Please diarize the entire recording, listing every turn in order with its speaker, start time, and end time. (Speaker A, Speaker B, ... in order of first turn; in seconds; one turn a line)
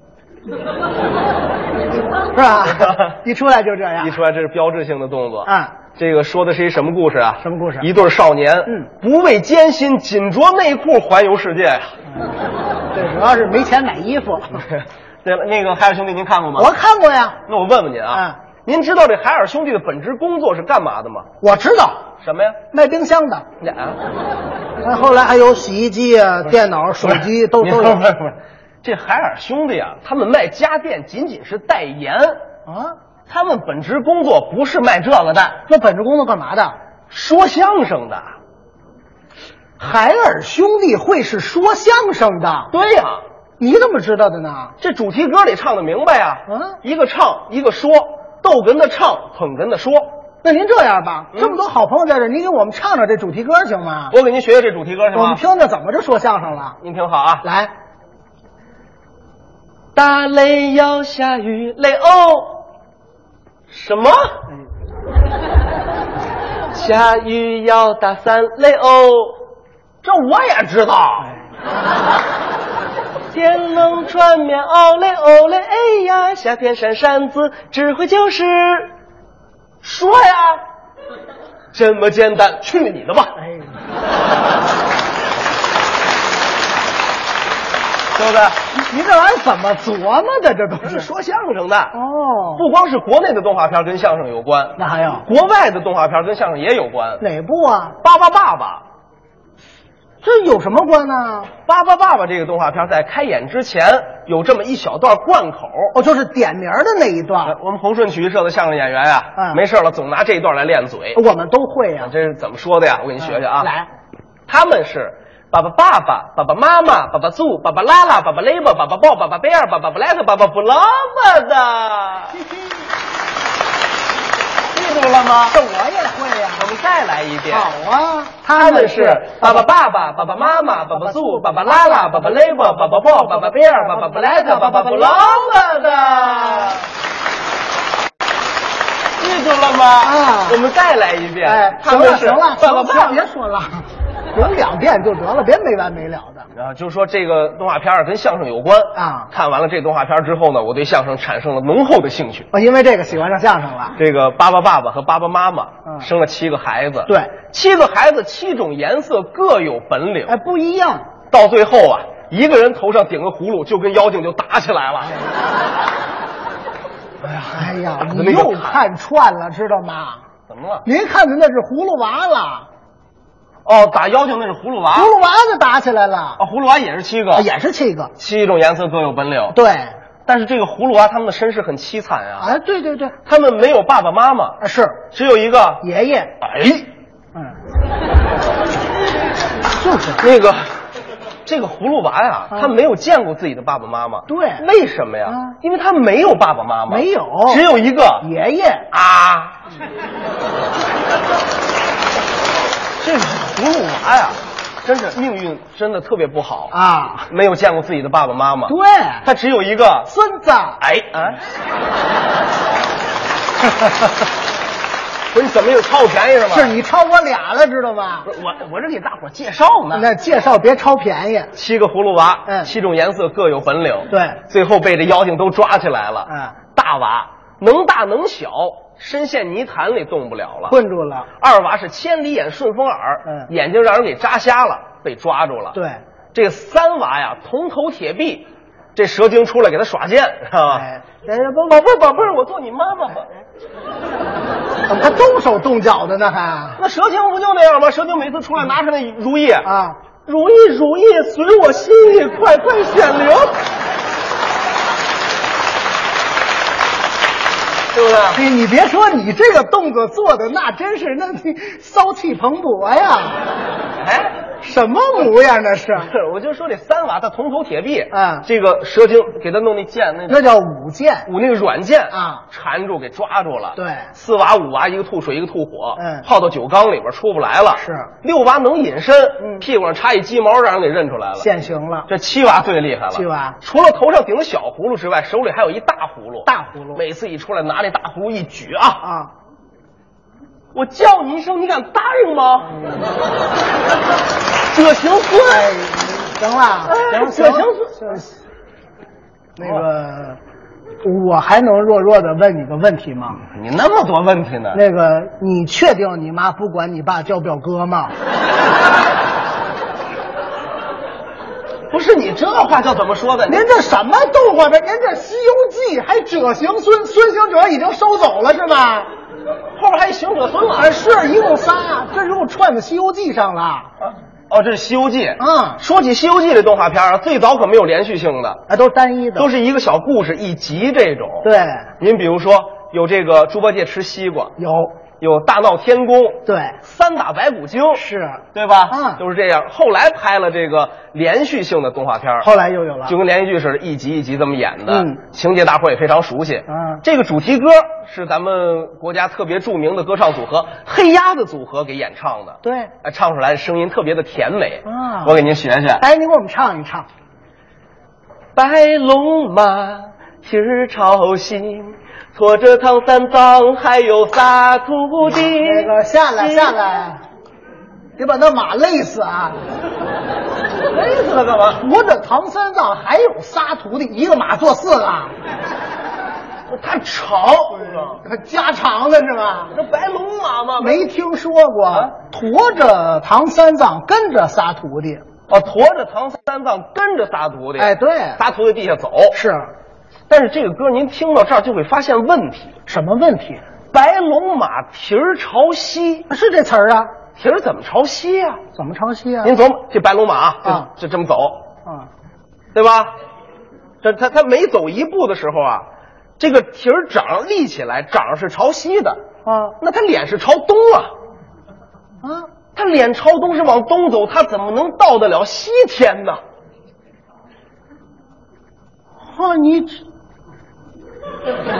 Speaker A: 2.3-4.2
Speaker B: 2.7-3.1
Speaker B: 4.0-11.9
Speaker A: 5.4-5.7
Speaker A: 7.4-7.9
Speaker A: 12.9-14.6
Speaker B: 14.7-16.7
Speaker A: 16.6-17.4
Speaker B: 17.5-21.3
Speaker A: 18.1-18.4
Speaker A: 21.4-22.1
Speaker B: 22.2-22.6
Speaker A: 22.7-23.4
Speaker B: 23.6-24.0
Speaker A: 24.8-28.0
Speaker B: 27.0-32.4
Speaker A: 32.7-33.0
Speaker B: 33.3-35.6
Speaker A: 35.7-36.8
Speaker B: 37.1-38.3
Speaker A: 39.8-42.7
Speaker B: 42.7-43.2
Speaker A: 43.6-44.7
Speaker B: 44.8-50.1
Speaker A: 46.5-46.8
Speaker A: 50.4-54.1
Speaker B: 54.1-55.4
Speaker A: 55.1-56.8
Speaker B: 56.8-57.4
Speaker A: 57.4-57.7
Speaker B: 59.9-62.6
Speaker B: 63.7-64.3
Speaker B: 66.7-69.4
Speaker B: 70.0-71.3
Speaker B: 73.3-78.9
Speaker B: 79.8-80.6
Speaker B: 81.7-83.3
Speaker A: 83.4-83.7
Speaker B: 88.1-88.6
Speaker A: 88.7-91.1
Speaker B: 90.8-91.9
Speaker A: 91.9-92.6
Speaker B: 92.5-97.2
Speaker A: 94.8-95.2
Speaker A: 97.2-98.0
Speaker B: 98.0-98.8
Speaker A: 100.2-101.5
Speaker B: 101.7-105.9
Speaker A: 105.9-107.5
Speaker B: 107.4-111.2
Speaker A: 111.1-112.1
Speaker B: 112.0-113.7
Speaker A: 113.2-113.9
Speaker B: 114.5-122.3
Speaker A: 122.3-122.7
Speaker B: 124.7-125.6
Speaker A: 125.5-126.7
Speaker B: 126.6-127.7
Speaker A: 127.5-129.6
Speaker B: 128.5-136.8
Speaker A: 130.7-136.8
Speaker B: 139.2-143.2
Speaker A: 140.0-140.6
Speaker A: 141.4-146.4
Speaker B: 146.5-152.5
Speaker A: 148.9-149.3
Speaker A: 152.5-154.0
Speaker B: 154.0-160.3
Speaker A: 157.1-157.3
Speaker A: 160.3-161.1
Speaker B: 161.3-165.1
Speaker B: 167.2-168.8
Speaker A: 167.5-170.2
Speaker B: 170.5-170.8
Speaker A: 170.8-172.7
Speaker B: 173.7-175.1
Speaker A: 174.9-176.4
Speaker B: 176.4-177.5
Speaker A: 177.3-178.1
Speaker B: 178.2-179.6
Speaker A: 179.5-179.9
Speaker B: 180.3-182.5
Speaker A: 182.4-183.1
Speaker B: 183.2-184.6
Speaker A: 184.6-185.0
Speaker B: 185.1-185.8
Speaker A: 185.8-186.3
Speaker B: 186.4-186.9
Speaker A: 189.8-190.2
Speaker B: 190.2-190.7
Speaker B: 191.4-198.3
Speaker A: 194.3-194.6
Speaker A: 195.3-195.6
Speaker A: 196.9-197.6
Speaker A: 198.2-198.8
Speaker B: 198.9-199.6
Speaker B: 203.0-206.7
Speaker A: 206.7-207.3
Speaker B: 207.3-210.1
Speaker A: 208.7-209.2
Speaker A: 210.1-210.8
Speaker B: 210.8-211.4
Speaker B: 215.3-216.7
Speaker A: 216.5-218.3
Speaker B: 218.3-220.1
Speaker A: 219.9-221.5
Speaker B: 221.5-230.8
Speaker A: 224.1-224.4
Speaker A: 226.3-226.6
Speaker A: 230.7-231.3
Speaker B: 231.4-235.8
Speaker A: 235.7-236.0
Speaker B: 236.3-240.8
Speaker A: 240.7-241.7
Speaker B: 241.6-243.3
Speaker A: 244.9-246.8
Speaker B: 246.8-249.7
Speaker A: 249.6-250.0
Speaker B: 250.2-253.5
Speaker B: 257.9-258.4
Speaker A: 258.3-263.4
Speaker B: 264.0-264.3
Speaker A: 264.6-266.1
Speaker B: 266.0-270.4
Speaker A: 268.1-268.4
Speaker A: 270.3-271.3
Speaker B: 271.3-281.5
Speaker A: 272.1-272.4
Speaker A: 273.8-274.1
Speaker A: 276.0-276.2
Speaker A: 277.8-278.1
Speaker A: 279.4-279.6
Speaker A: 281.4-282.1
Speaker B: 282.1-289.0
Speaker A: 283.1-283.6
Speaker A: 286.4-287.0
Speaker A: 289.0-289.3
Speaker B: 290.7-292.8
Speaker B: 294.7-295.7
Speaker A: 295.5-298.3
Speaker B: 296.9-298.2
Speaker A: 299.6-300.4
Speaker B: 299.6-299.9
Speaker A: 301.0-303.4
Speaker B: 303.5-304.8
Speaker A: 304.7-308.1
Speaker B: 311.9-313.6
Speaker A: 313.5-319.1
Speaker B: 319.7-320.9
Speaker A: 320.8-323.9
Speaker B: 324.0-328.6
Speaker A: 325.4-325.8
Speaker A: 328.7-329.5
Speaker B: 329.4-331.5
Speaker A: 331.4-331.9
Speaker B: 332.0-334.5
Speaker A: 334.6-335.0
Speaker B: 335.2-342.5
Speaker A: 336.4-336.8
Speaker A: 337.9-339.2
Speaker A: 342.4-343.1
Speaker B: 343.1-356.0
Speaker A: 344.9-345.2
Speaker A: 346.7-347.0
Speaker A: 352.6-352.9
Speaker A: 354.9-355.4
Speaker A: 356.0-357.1
Speaker B: 358.6-366.9
Speaker A: 365.2-367.2
Speaker A: 368.2-369.6
Speaker B: 370.9-371.8
Speaker A: 371.7-375.3
Speaker B: 376.7-378.2
Speaker A: 377.7-379.7
Speaker B: 379.7-381.1
Speaker A: 380.8-385.2
Speaker B: 385.5-389.4
Speaker A: 387.8-388.4
Speaker A: 389.3-389.7
Speaker B: 390.3-392.8
Speaker A: 392.9-393.6
Speaker B: 393.9-396.3
Speaker A: 396.3-397.1
Speaker B: 397.4-398.6
Speaker A: 398.8-399.5
Speaker B: 399.4-401.7
Speaker A: 400.6-400.9
Speaker B: 402.7-403.1
Speaker B: 404.0-405.9
Speaker B: 406.4-409.2
Speaker A: 409.4-409.8
Speaker B: 409.8-411.1
Speaker A: 412.2-412.5
Speaker B: 412.8-416.4
Speaker A: 419.2-420.0